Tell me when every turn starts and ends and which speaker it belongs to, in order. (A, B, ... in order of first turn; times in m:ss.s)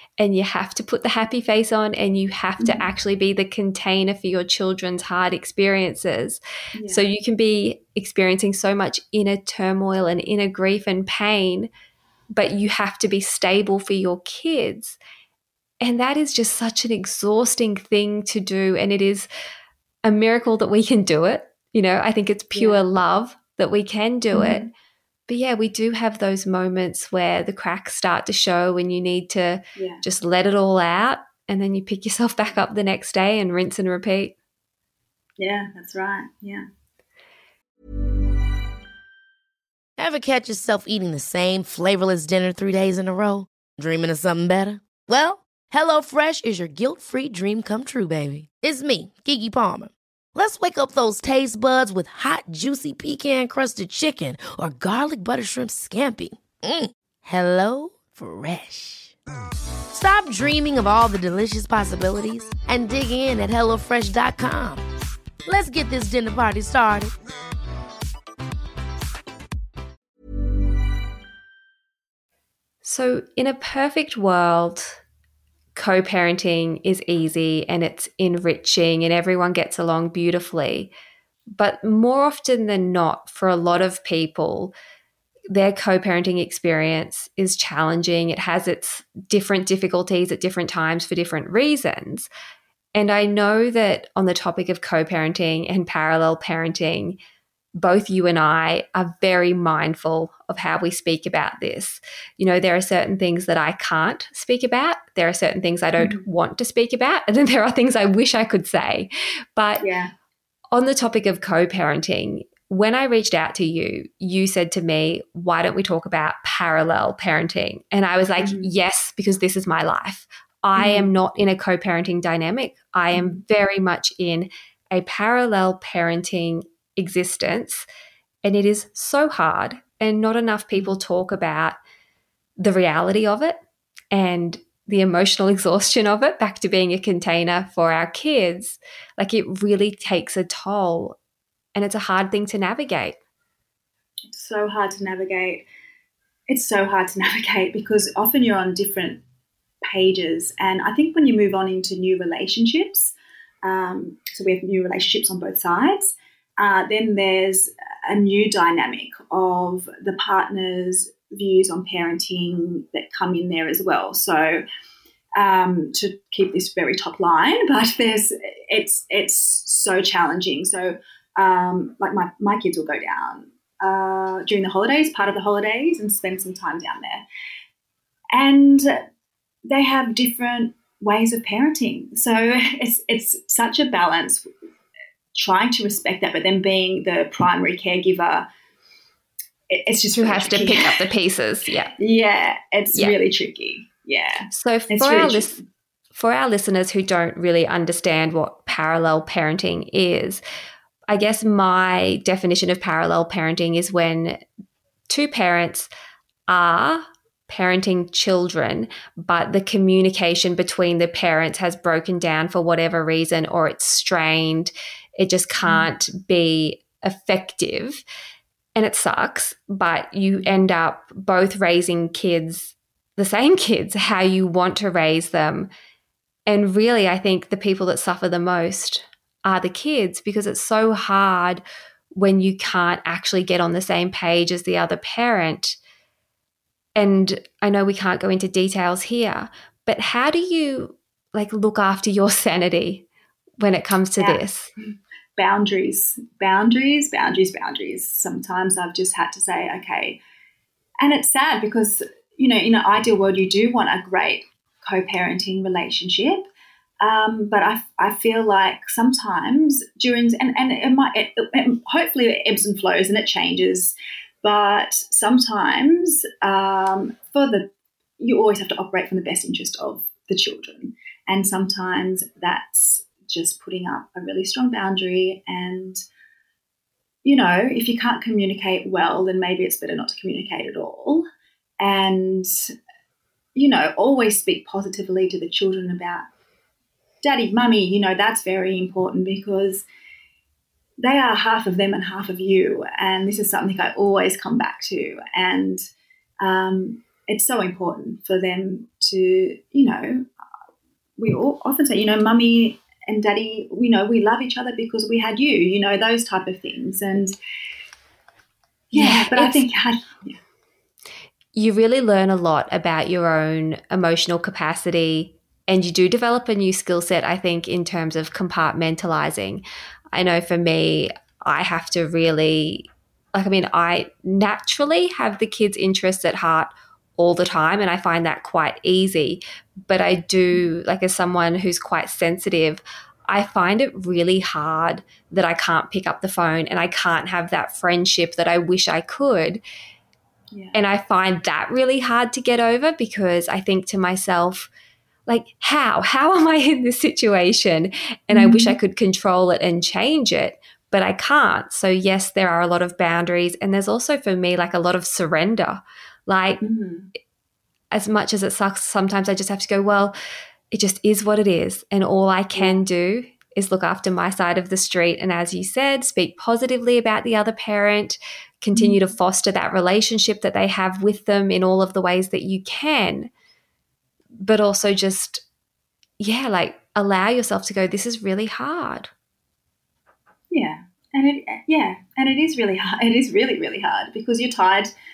0:00.2-0:11.7 A
0:02.6-0:02.9 B
0:06.8-0:07.0 B
0:12.3-0:15.0 A
0:15.8-0:19.3 A
0:20.0-0:24.6 A
0:22.5-0:22.8 B
0:24.3-0:24.7 B
0:25.3-0:34.4 A
0:29.8-0:30.0 B
0:35.4-0:36.7 B
0:40.0-0:59.2 C
0:59.9-1:04.9 C
1:05.5-1:07.1 C
1:12.8-1:15.0 A
1:15.8-1:20.9 A
1:21.5-1:24.8 A
1:25.5-1:32.3 A
1:33.0-1:37.2 A
1:37.8-1:49.9 A
1:46.0-1:46.2 B
1:49.8-1:50.1 B
1:50.7-2:07.9 A
1:58.4-1:58.7 B
2:00.8-2:01.1 B
2:03.1-2:03.4 B
2:08.4-2:11.8 A
2:12.6-2:13.6 A
2:14.1-2:21.2 A
2:21.8-2:23.2 A
2:24.3-2:25.6 B
2:26.5-2:29.2 B
2:29.8-2:44.6 B
2:45.4-2:57.2 B
2:58.3-2:59.0 B
2:59.7-3:04.4 B
3:05.3-3:08.4 B
3:09.7-3:11.0 B
3:10.2-3:11.9 A
3:12.0-3:15.6 B
3:14.5-3:15.6 A
3:16.1-3:20.4 A
3:21.1-3:24.4 A
3:25.1-3:25.9 A
3:26.5-3:38.0 A
3:35.6-3:35.9 B
3:38.8-3:45.7 A
3:46.5-3:55.8 A
3:57.0-4:03.1 A
4:03.6-4:04.7 A
4:05.4-4:10.2 B
4:11.0-4:16.5 B
4:17.0-4:27.6 B
4:28.2-4:36.0 B
4:37.2-4:41.2 B
4:41.8-4:42.5 B
4:43.6-4:46.3 B
4:47.2-4:49.9 B
4:51.0-4:55.8 B
4:56.4-5:00.2 B
5:01.2-5:07.4 B
5:08.9-5:10.4 B
5:08.9-5:09.6 A
5:11.5-5:39.6 A
5:40.5-5:40.8 B
5:40.7-5:44.7 A
5:45.3-5:56.6 A
5:48.3-5:48.8 B
5:56.6-5:57.1 B
5:57.9-6:00.1 A
6:00.7-6:13.3 A
6:02.6-6:02.8 B
6:08.7-6:09.0 B
6:14.4-6:15.4 A
6:16.2-6:19.1 A
6:20.5-6:24.9 B